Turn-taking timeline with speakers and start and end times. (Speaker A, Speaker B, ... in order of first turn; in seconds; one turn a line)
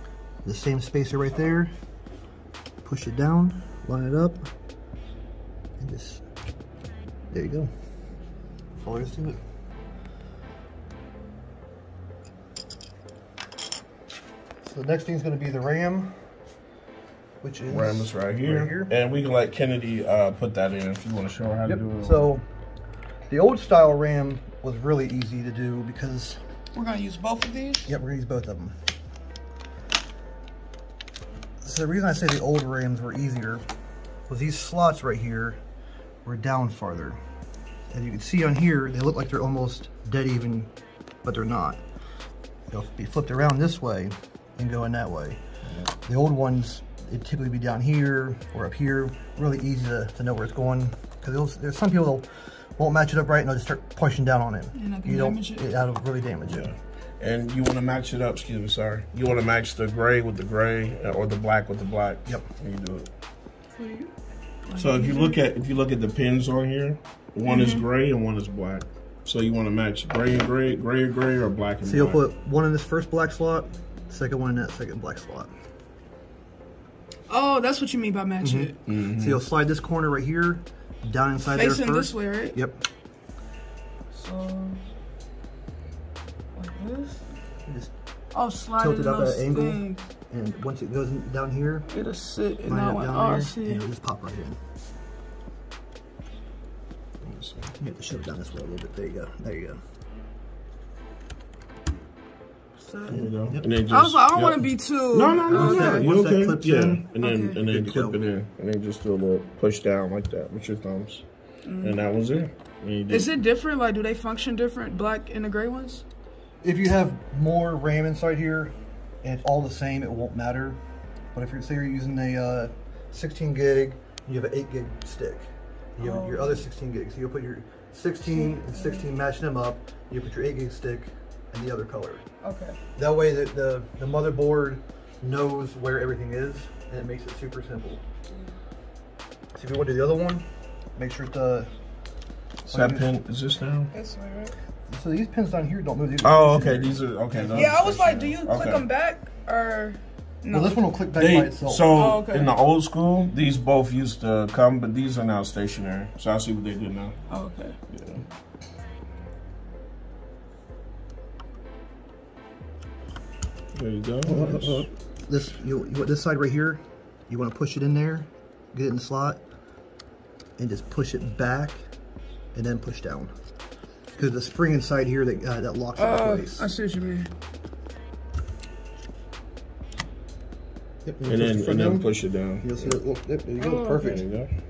Speaker A: 0.4-1.7
Speaker A: 2.8-4.5
Speaker A: 5.8-6.2
Speaker A: 7.3-7.7
Speaker A: 8.8-9.4
Speaker A: 14.6-16.3
Speaker A: 17.4-18.9
Speaker B: 17.7-22.3
Speaker A: 21.6-22.4
Speaker A: 23.3-26.4
Speaker C: 26.7-27.9
Speaker A: 27.9-28.7
Speaker A: 31.6-33.6
Speaker A: 34.3-35.6
Speaker A: 36.2-37.2
Speaker A: 37.9-40.7
Speaker A: 41.2-41.8
Speaker A: 42.7-45.4
Speaker A: 46.0-56.7
Speaker C: 54.7-55.7
Speaker B: 56.5-63.1
Speaker C: 63.8-64.1
Speaker C: 64.7-65.4
Speaker B: 64.8-72.2
Speaker C: 67.5-67.8
Speaker A: 71.8-75.5
Speaker C: 77.3-78.8
Speaker A: 78.4-82.8
Speaker B: 78.8-79.4
Speaker C: 81.4-82.6
Speaker C: 84.1-84.8
Speaker C: 86.5-87.2
Speaker C: 88.3-90.0
Speaker A: 88.7-91.9
Speaker C: 91.9-93.8
Speaker A: 92.6-94.6
Speaker B: 97.2-97.7
Speaker A: 97.7-99.8
Speaker C: 102.8-103.2
Speaker B: 103.1-111.2
Speaker A: 103.1-103.7
Speaker C: 103.9-106.1
Speaker A: 105.5-107.1
Speaker C: 107.2-107.6
Speaker A: 107.7-108.2
Speaker C: 111.6-112.0
Speaker B: 111.8-113.3
Speaker C: 113.1-116.0
Speaker A: 116.6-120.8
Speaker A: 121.3-132.2
Speaker C: 126.0-126.7
Speaker C: 128.3-129.1
Speaker C: 132.4-132.8
Speaker A: 133.0-138.0
Speaker A: 139.5-141.7
Speaker A: 142.7-143.1
Speaker B: 142.7-143.9
Speaker C: 143.9-144.5
Speaker A: 144.9-148.1
Speaker B: 146.2-148.9
Speaker C: 147.5-150.9
Speaker A: 150.5-152.0
Speaker B: 151.1-157.1
Speaker C: 151.9-152.5
Speaker C: 157.3-157.8
Speaker B: 157.9-158.2
Speaker B: 163.7-164.9
Speaker A: 164.2-169.4
Speaker A: 170.6-171.8
Speaker A: 172.5-173.3
Speaker A: 174.2-176.7
Speaker C: 175.9-177.3
Speaker A: 181.0-182.1
Speaker B: 181.2-183.0
Speaker A: 182.6-184.3
Speaker C: 183.6-184.2
Speaker B: 184.0-184.5